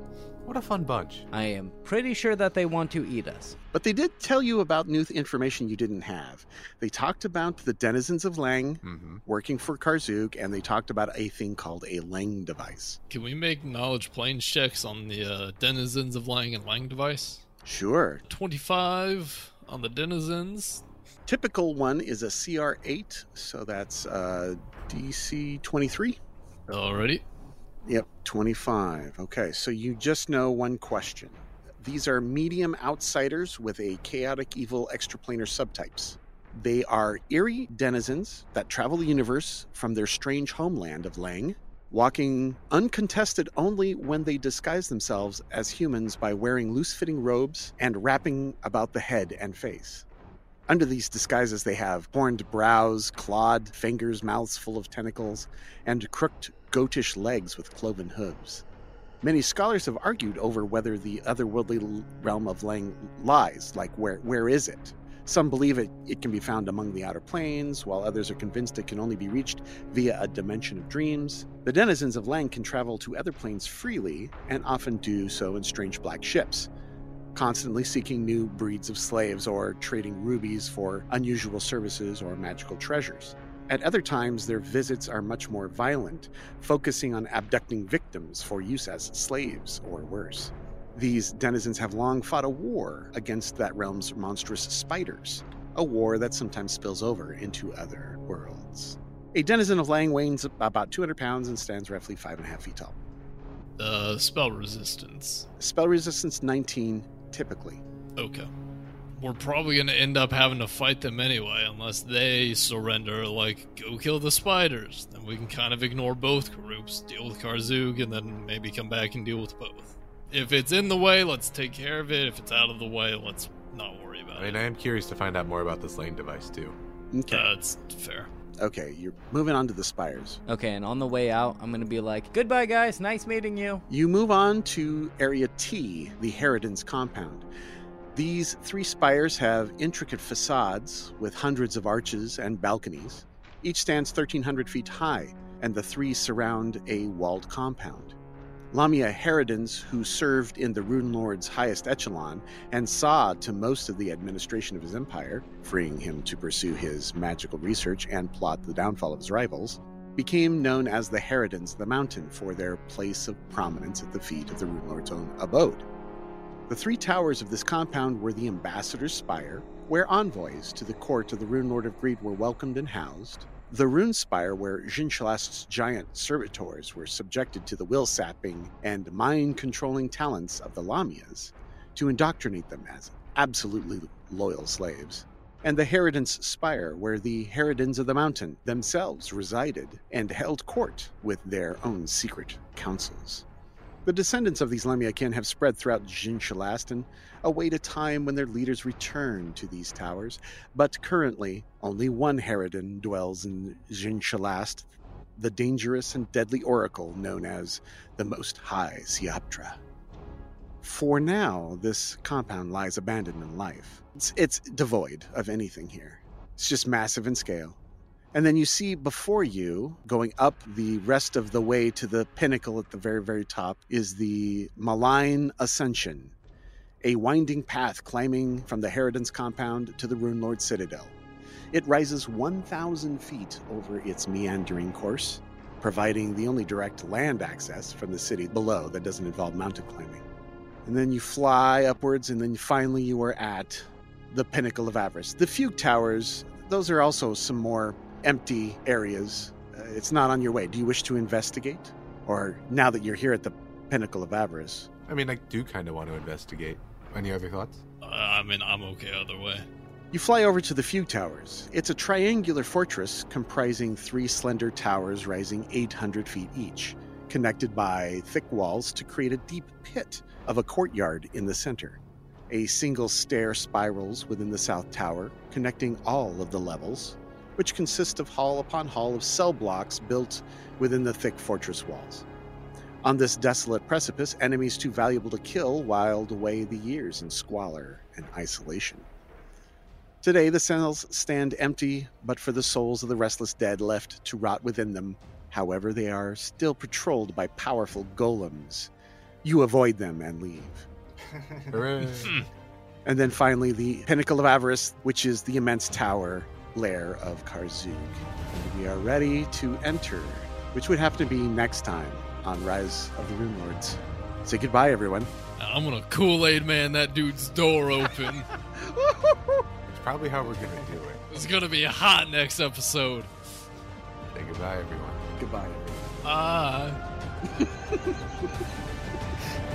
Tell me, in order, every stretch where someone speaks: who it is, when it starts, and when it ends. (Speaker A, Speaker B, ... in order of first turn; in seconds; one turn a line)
Speaker A: 0.4-1.3
Speaker B: 1.3-3.5
Speaker C: 3.7-13.0
Speaker A: 8.8-9.2
Speaker D: 13.1-17.4
Speaker C: 17.6-18.2
Speaker D: 18.3-20.8
Speaker C: 21.3-26.2
Speaker D: 26.7-27.2
Speaker C: 27.9-50.0
Speaker C: 50.7-58.6
Speaker C: 59.2-76.7
Speaker C: 77.3-103.0
Speaker D: 103.8-105.5
Speaker C: 105.6-107.8
Speaker D: 108.2-108.5
Speaker D: 109.1-124.6
Speaker A: 124.3-126.8
Speaker C: 127.1-127.5
Speaker D: 127.3-128.3
Speaker C: 128.6-130.4
Speaker B: 130.5-133.8
Speaker C: 133.9-137.4
Speaker C: 138.1-148.1
Speaker C: 148.7-165.8
Speaker C: 166.7-193.4
Speaker C: 194.0-209.8
Speaker C: 210.8-217.8
Speaker C: 218.3-226.3
Speaker C: 227.0-231.1
Speaker C: 231.7-240.2
Speaker C: 240.8-254.9
Speaker A: 255.1-257.8
Speaker D: 258.0-259.6
Speaker C: 260.1-272.0
Speaker C: 272.5-282.2
Speaker C: 283.0-289.1
Speaker C: 290.2-298.9
Speaker C: 299.4-300.9
Speaker A: 301.7-302.4
Speaker D: 302.2-302.5
Speaker C: 303.0-315.3
Speaker D: 315.6-318.5
Speaker C: 318.8-319.6
Speaker A: 319.9-321.2
Speaker D: 321.3-323.3
Speaker A: 324.3-325.2
Speaker C: 325.4-326.1
Speaker D: 326.2-327.0
Speaker C: 327.6-328.1